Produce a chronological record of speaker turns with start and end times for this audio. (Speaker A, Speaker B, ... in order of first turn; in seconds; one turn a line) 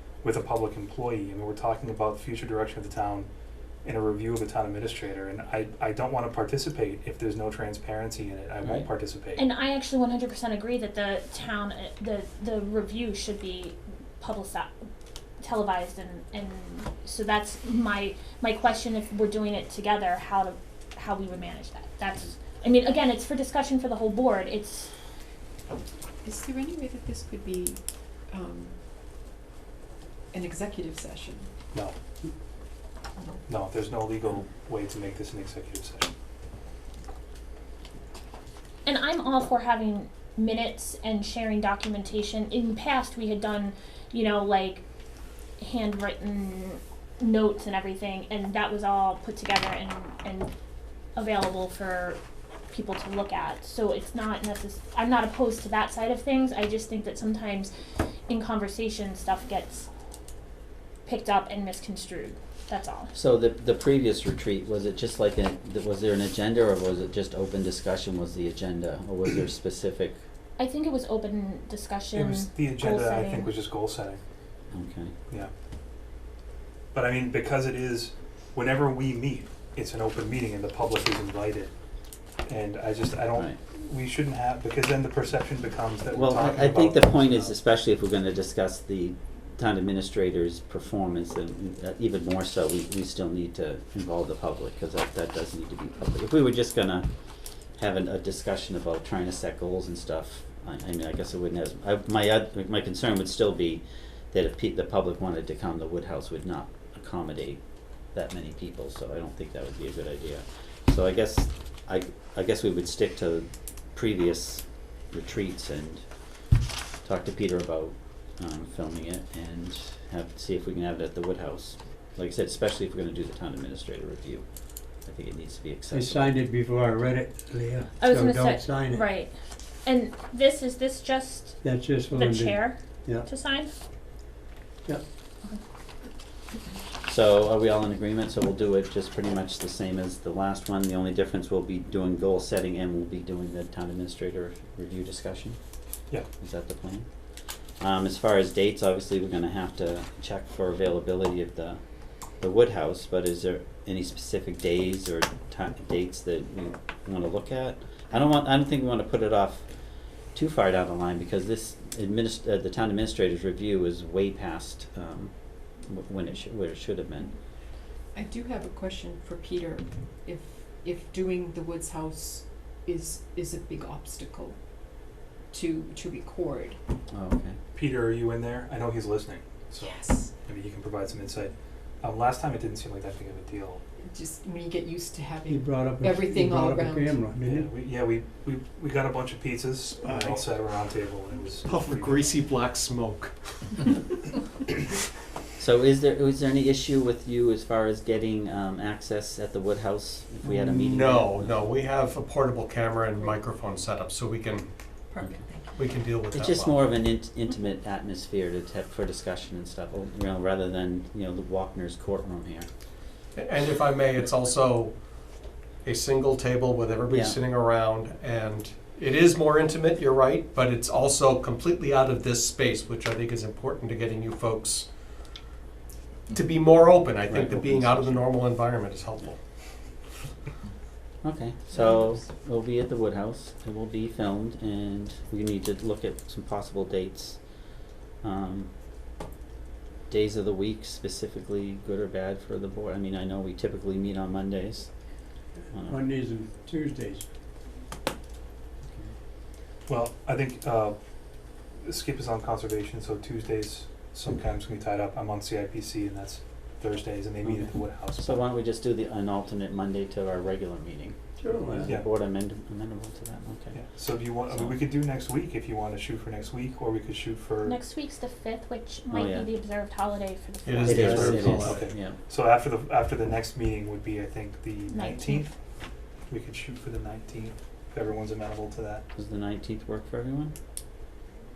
Speaker A: 0.2-3.3
Speaker A: 3.8-9.4
Speaker B: 8.6-8.9
Speaker C: 9.4-14.7
Speaker C: 15.4-24.9
Speaker D: 26.2-28.7
Speaker D: 30.3-31.5
Speaker A: 33.5-36.1
Speaker C: 38.9-44.8
Speaker C: 45.6-50.5
Speaker C: 51.1-52.2
Speaker C: 52.7-57.7
Speaker C: 58.3-59.9
Speaker C: 61.0-63.1
Speaker B: 63.1-70.2
Speaker C: 70.6-73.5
Speaker A: 72.1-74.2
Speaker B: 74.7-75.1
Speaker A: 76.9-81.7
Speaker A: 82.5-87.5
Speaker B: 86.1-97.1
Speaker B: 97.8-116.1
Speaker B: 117.0-126.3
Speaker E: 125.9-129.1
Speaker C: 128.0-129.3
Speaker C: 129.8-133.7
Speaker E: 131.6-133.3
Speaker B: 137.1-145.6
Speaker B: 146.4-147.1
Speaker B: 147.8-151.8
Speaker B: 152.4-159.7
Speaker B: 160.3-167.3
Speaker D: 168.1-174.6
Speaker D: 175.5-176.8
Speaker B: 177.1-177.6
Speaker A: 177.7-183.8
Speaker D: 179.8-180.3
Speaker D: 184.1-187.4
Speaker E: 185.5-187.6
Speaker A: 187.4-192.2
Speaker E: 190.1-190.3
Speaker F: 191.7-193.9
Speaker B: 195.6-201.7
Speaker F: 200.6-205.0
Speaker D: 205.1-205.9
Speaker F: 205.8-207.0
Speaker B: 206.2-212.7
Speaker F: 213.3-225.0
Speaker B: 217.1-217.4
Speaker F: 226.3-230.0
Speaker B: 227.3-228.3
Speaker B: 231.2-237.7
Speaker D: 231.8-232.2
Speaker B: 238.2-238.7
Speaker B: 240.1-245.2
Speaker B: 245.7-246.0
Speaker E: 245.8-247.3
Speaker A: 249.9-251.0
Speaker A: 251.8-258.5
Speaker B: 258.2-263.8
Speaker E: 261.4-261.9
Speaker A: 263.7-267.8
Speaker B: 264.5-264.8
Speaker C: 267.6-271.6
Speaker B: 269.1-269.5
Speaker F: 270.6-271.9
Speaker B: 270.8-272.2
Speaker A: 271.1-275.5
Speaker C: 274.9-275.5
Speaker A: 276.3-279.1
Speaker B: 279.1-280.5